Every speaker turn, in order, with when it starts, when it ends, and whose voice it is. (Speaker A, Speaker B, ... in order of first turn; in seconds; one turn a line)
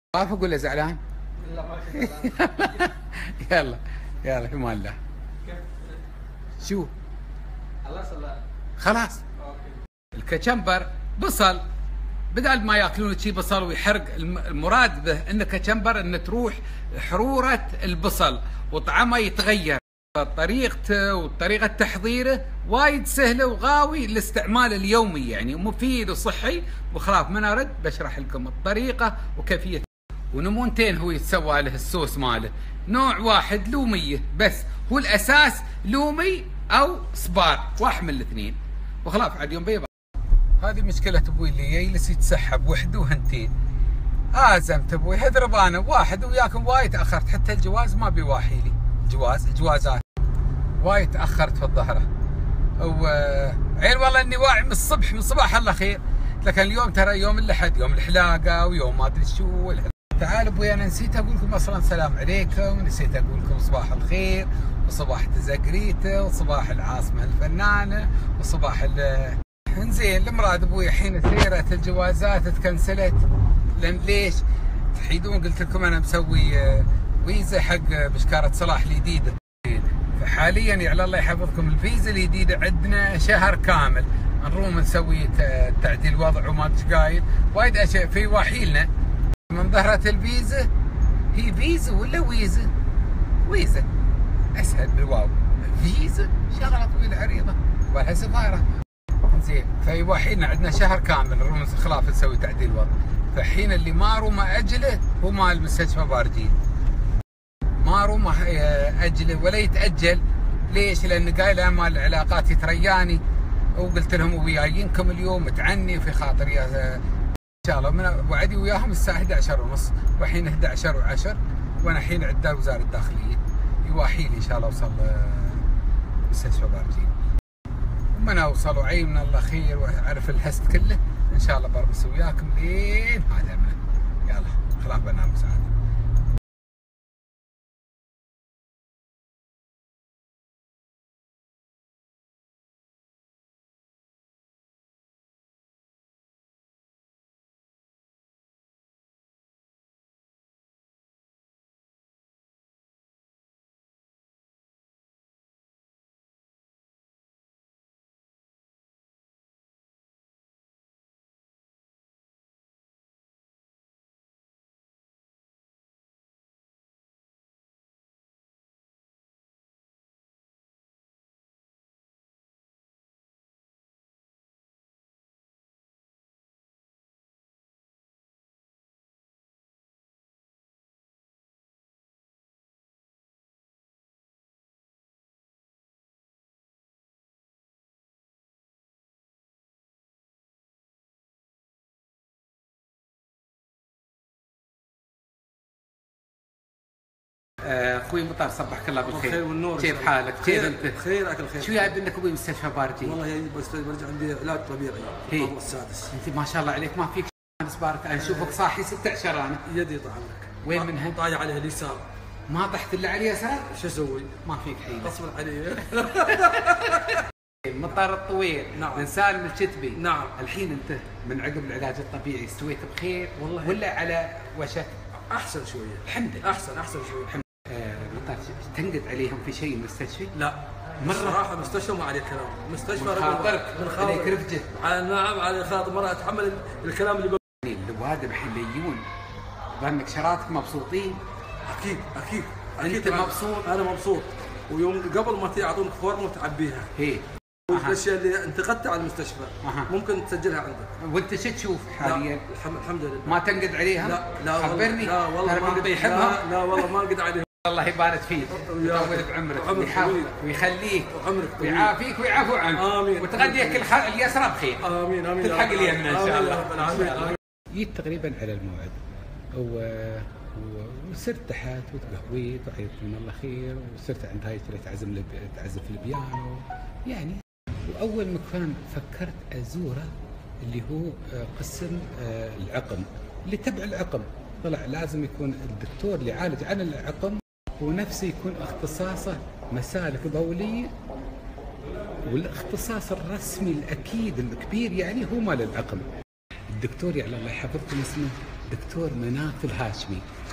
Speaker A: 0.1-1.0
Speaker B: 1.4-2.9
Speaker A: 2.2-5.0
Speaker B: 5.5-6.0
Speaker A: 6.6-6.9
Speaker B: 7.8-8.4
Speaker A: 8.8-9.2
Speaker B: 9.4-9.8
Speaker A: 10.1-11.6
Speaker A: 12.3-39.9
Speaker A: 40.6-43.5
Speaker A: 44.3-50.0
Speaker A: 50.8-52.1
Speaker A: 52.8-73.2
Speaker A: 73.8-74.4
Speaker A: 74.9-88.9
Speaker A: 89.5-90.7
Speaker A: 91.3-92.7
Speaker A: 93.5-93.8
Speaker A: 94.5-98.7
Speaker A: 99.3-106.5
Speaker A: 107.8-113.2
Speaker A: 113.8-117.0
Speaker A: 117.6-125.6
Speaker A: 126.3-127.1
Speaker A: 128.1-135.7
Speaker A: 197.6-201.0
Speaker C: 199.0-201.9
Speaker A: 201.6-203.2
Speaker C: 203.0-206.1
Speaker A: 205.3-205.5
Speaker A: 206.1-209.6
Speaker C: 208.2-208.5
Speaker C: 209.7-212.1
Speaker A: 210.6-211.2
Speaker A: 212.5-213.7
Speaker C: 213.7-214.4
Speaker A: 214.4-215.2
Speaker C: 215.0-217.2
Speaker A: 216.3-217.1
Speaker A: 217.6-224.9
Speaker C: 218.7-219.1
Speaker C: 219.9-220.4
Speaker C: 223.4-223.8
Speaker C: 225.3-227.4
Speaker A: 226.1-226.5
Speaker A: 227.3-230.3
Speaker C: 230.3-237.4
Speaker A: 231.0-231.5
Speaker A: 232.9-234.7
Speaker A: 237.6-239.0
Speaker A: 239.8-241.2
Speaker C: 241.7-246.9
Speaker A: 242.8-243.7
Speaker A: 247.0-248.0
Speaker C: 247.7-250.9
Speaker A: 249.6-249.9
Speaker A: 251.0-252.4
Speaker C: 252.0-253.4
Speaker A: 253.2-256.5
Speaker C: 254.0-257.5
Speaker A: 257.6-269.0
Speaker C: 258.6-260.4
Speaker C: 261.1-261.9
Speaker C: 262.7-263.9
Speaker C: 264.8-267.4
Speaker A: 269.5-280.1
Speaker A: 280.6-290.9
Speaker A: 292.2-296.1
Speaker A: 296.7-300.2